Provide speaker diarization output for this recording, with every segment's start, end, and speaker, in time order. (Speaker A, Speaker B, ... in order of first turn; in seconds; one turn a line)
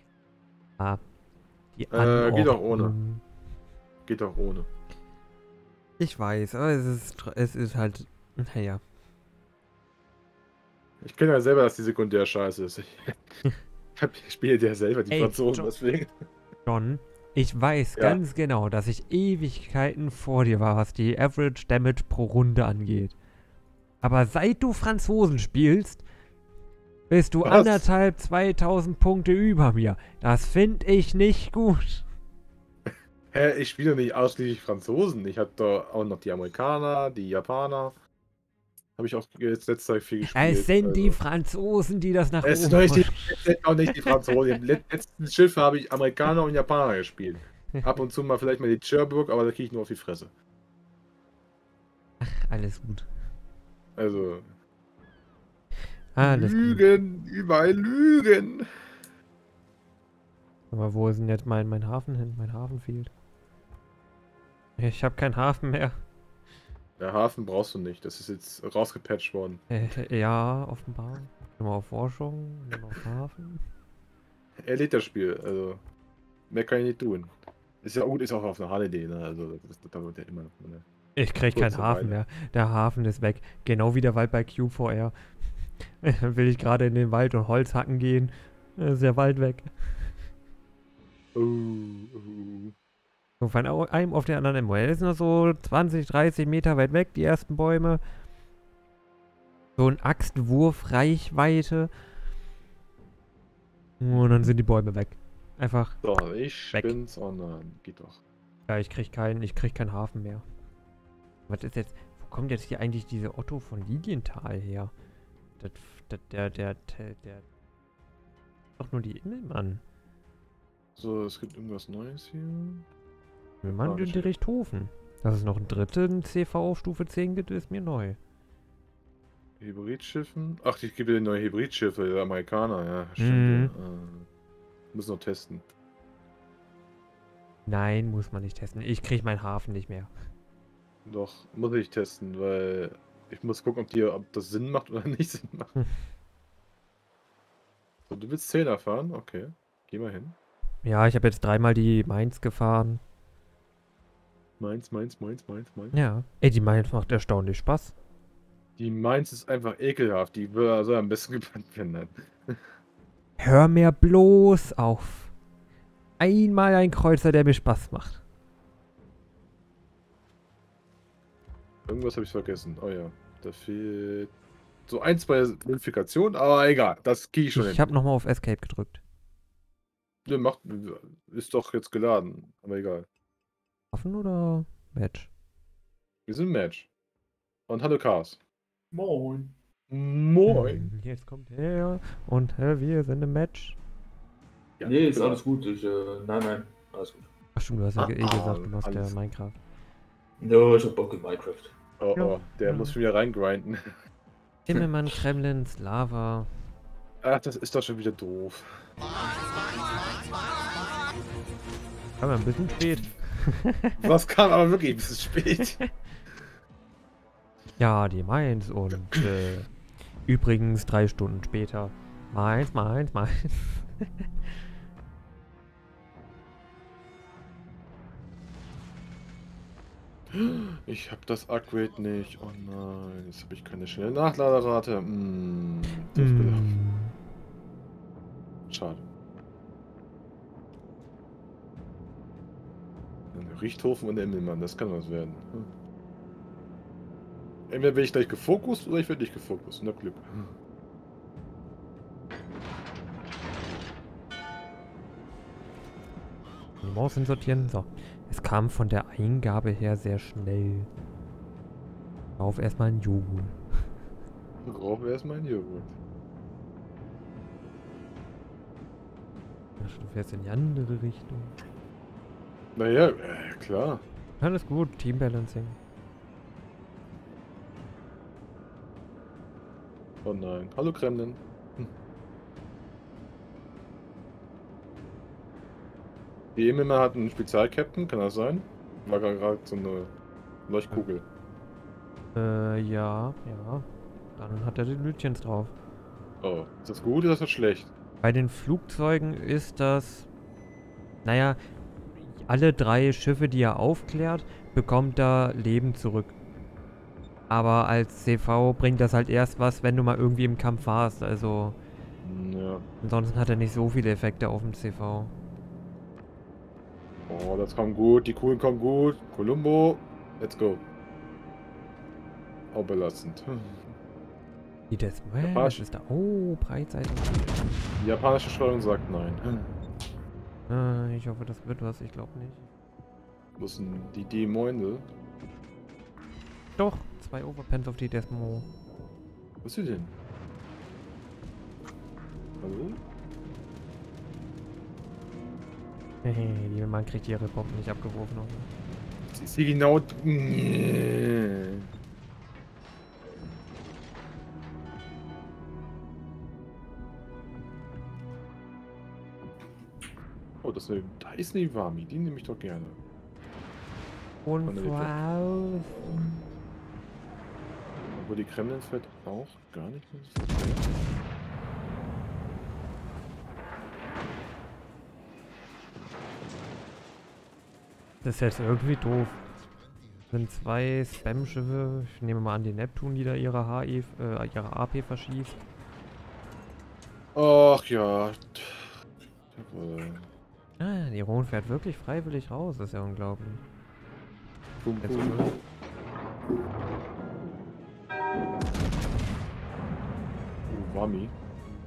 Speaker A: 1.8-3.2
Speaker B: 1.9-3.0
Speaker B: 4.1-4.7
Speaker A: 6.0-8.8
Speaker B: 11.0-13.4
Speaker B: 14.0-16.1
Speaker A: 15.1-15.7
Speaker A: 16.7-23.2
Speaker A: 24.0-26.0
Speaker A: 27.1-32.0
Speaker B: 27.4-27.9
Speaker B: 32.9-38.0
Speaker B: 39.0-41.2
Speaker A: 40.3-44.6
Speaker B: 42.4-50.3
Speaker A: 52.2-53.1
Speaker B: 54.0-54.5
Speaker A: 56.1-56.8
Speaker B: 56.2-58.7
Speaker A: 60.7-63.1
Speaker A: 64.8-66.0
Speaker B: 67.0-69.7
Speaker A: 69.7-73.6
Speaker B: 74.6-75.8
Speaker B: 76.5-80.8
Speaker A: 81.2-85.1
Speaker B: 81.5-82.2
Speaker A: 85.8-90.1
Speaker B: 91.3-92.7
Speaker A: 93.4-98.0
Speaker A: 99.8-101.9
Speaker A: 104.0-106.0
Speaker B: 106.0-108.2
Speaker A: 106.7-107.0
Speaker A: 108.7-110.5
Speaker A: 111.5-114.9
Speaker A: 115.6-117.4
Speaker A: 118.8-119.8
Speaker B: 121.0-122.9
Speaker A: 123.6-128.2
Speaker B: 123.7-124.3
Speaker B: 129.6-134.3
Speaker A: 133.2-133.8
Speaker B: 134.9-135.7
Speaker A: 137.7-140.1
Speaker B: 141.1-145.8
Speaker B: 148.1-150.4
Speaker A: 150.8-153.0
Speaker B: 154.6-156.0
Speaker A: 155.9-157.9
Speaker B: 158.8-162.8
Speaker A: 163.4-165.3
Speaker A: 166.2-168.2
Speaker B: 171.9-174.3
Speaker B: 174.9-177.8
Speaker A: 177.6-179.0
Speaker B: 180.3-183.1
Speaker A: 183.9-185.3
Speaker B: 186.3-186.9
Speaker B: 187.7-188.4
Speaker C: 188.9-189.6
Speaker B: 189.9-190.9
Speaker A: 190.5-193.8
Speaker B: 194.8-195.4
Speaker C: 194.8-197.3
Speaker A: 197.6-199.6
Speaker B: 198.0-199.1
Speaker C: 200.4-201.7
Speaker B: 202.0-203.9
Speaker A: 202.2-202.9
Speaker A: 204.7-206.5
Speaker B: 207.2-208.9
Speaker A: 212.2-214.0
Speaker B: 214.0-215.8
Speaker A: 217.8-219.7
Speaker A: 220.3-224.1
Speaker B: 230.3-236.8
Speaker A: 236.2-237.1
Speaker B: 238.7-239.1
Speaker B: 243.3-245.7
Speaker B: 247.7-250.5
Speaker A: 256.8-260.9
Speaker A: 262.4-263.6
Speaker B: 264.6-265.9
Speaker A: 269.8-271.6
Speaker B: 272.8-274.0
Speaker A: 274.4-275.8
Speaker B: 280.2-281.9
Speaker B: 286.6-290.1
Speaker B: 290.7-291.2
Speaker A: 292.4-295.7
Speaker B: 296.4-297.9
Speaker A: 298.2-300.3
Speaker A: 301.2-301.6
Speaker A: 302.1-306.4
Speaker A: 307.5-311.8
Speaker B: 312.2-312.9
Speaker A: 313.0-315.3
Speaker B: 317.3-320.8
Speaker B: 322.7-323.9
Speaker A: 324.9-327.7
Speaker B: 325.4-325.8
Speaker B: 328.0-329.8
Speaker A: 330.7-332.7
Speaker B: 333.6-335.1
Speaker A: 336.8-338.7
Speaker B: 339.6-340.1
Speaker B: 342.6-343.0
Speaker A: 346.2-348.7
Speaker B: 349.3-351.9
Speaker B: 360.6-363.0
Speaker A: 364.5-366.0
Speaker B: 364.6-365.1
Speaker B: 368.1-370.9
Speaker A: 378.2-379.4
Speaker A: 380.3-385.6
Speaker B: 387.4-388.9
Speaker B: 389.5-390.3
Speaker A: 390.8-393.6
Speaker B: 394.8-395.5
Speaker A: 395.0-395.6
Speaker B: 400.7-401.3